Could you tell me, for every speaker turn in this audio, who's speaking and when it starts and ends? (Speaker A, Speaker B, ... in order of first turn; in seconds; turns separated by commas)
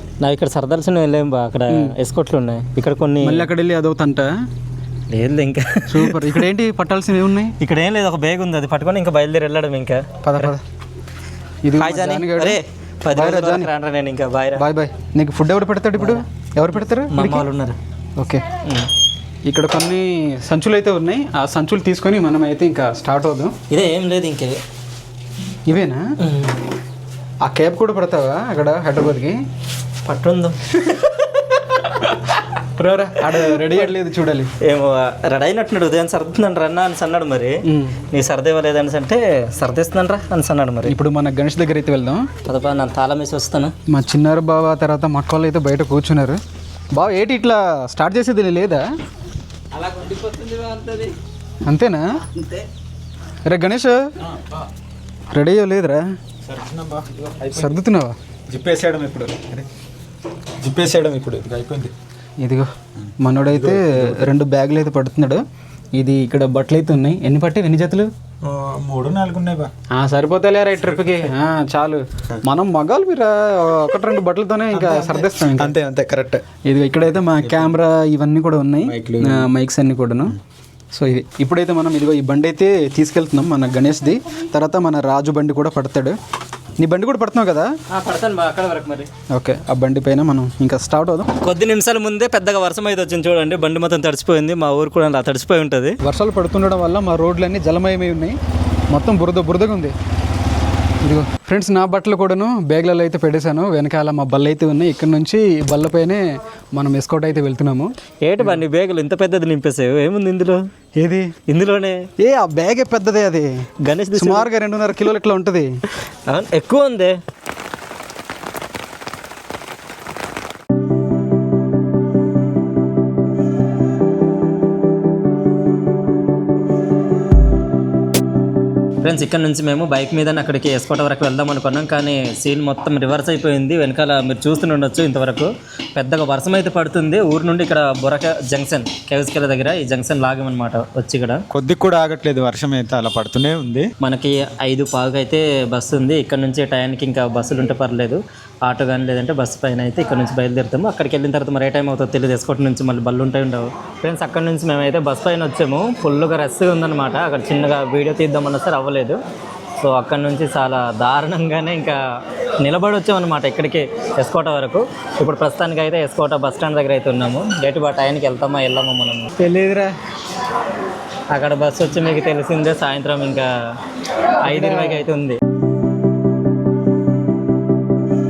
Speaker A: 0.2-3.5, Speaker B: 1.7-1.9, Speaker B: 3.2-4.3, Speaker A: 5.1-6.4, Speaker B: 5.9-7.5, Speaker A: 7.6-10.5, Speaker B: 10.2-10.6, Speaker B: 11.6-12.6, Speaker A: 11.8-14.6, Speaker B: 13.1-13.7, Speaker B: 14.6-17.4, Speaker A: 16.0-16.2, Speaker A: 17.1-17.8, Speaker A: 18.6-18.9, Speaker B: 19.4-23.5, Speaker A: 23.7-24.6, Speaker B: 25.6-26.0, Speaker A: 26.2-26.6, Speaker B: 27.4-29.4, Speaker A: 30.0-30.8, Speaker B: 32.8-34.5, Speaker A: 34.6-37.5, Speaker B: 37.7-38.0, Speaker A: 38.1-40.9, Speaker B: 40.9-42.2, Speaker A: 42.5-43.7, Speaker B: 43.9-46.4, Speaker B: 46.9-48.8, Speaker A: 49.7-51.1, Speaker B: 51.6-52.0, Speaker B: 53.5-54.0, Speaker B: 55.3-56.0, Speaker C: 56.5-57.0, Speaker B: 57.5-58.1, Speaker C: 58.5-59.7, Speaker C: 60.6-61.9, Speaker B: 62.4-62.7, Speaker B: 63.2-65.4, Speaker B: 65.9-68.1, Speaker C: 68.4-69.7, Speaker B: 70.0-75.7, Speaker C: 74.7-76.4, Speaker B: 76.6-80.4, Speaker C: 77.4-77.7, Speaker C: 79.0-79.4, Speaker B: 80.9-86.2, Speaker B: 86.8-87.7, Speaker A: 87.9-89.1, Speaker B: 89.3-91.3, Speaker A: 91.4-96.0, Speaker B: 96.0-98.3, Speaker B: 98.9-99.9, Speaker B: 101.0-106.2, Speaker B: 106.7-107.9, Speaker A: 108.2-110.6, Speaker B: 111.0-111.3, Speaker A: 111.5-112.0, Speaker B: 112.2-113.5, Speaker A: 113.8-114.5, Speaker B: 114.1-115.7, Speaker A: 116.3-117.1, Speaker A: 129.0-141.4, Speaker C: 141.6-143.8, Speaker A: 144.0-159.2, Speaker A: 159.8-162.0, Speaker A: 162.6-169.3, Speaker B: 169.4-169.9, Speaker A: 171.3-173.5, Speaker A: 174.4-175.4, Speaker B: 174.4-175.0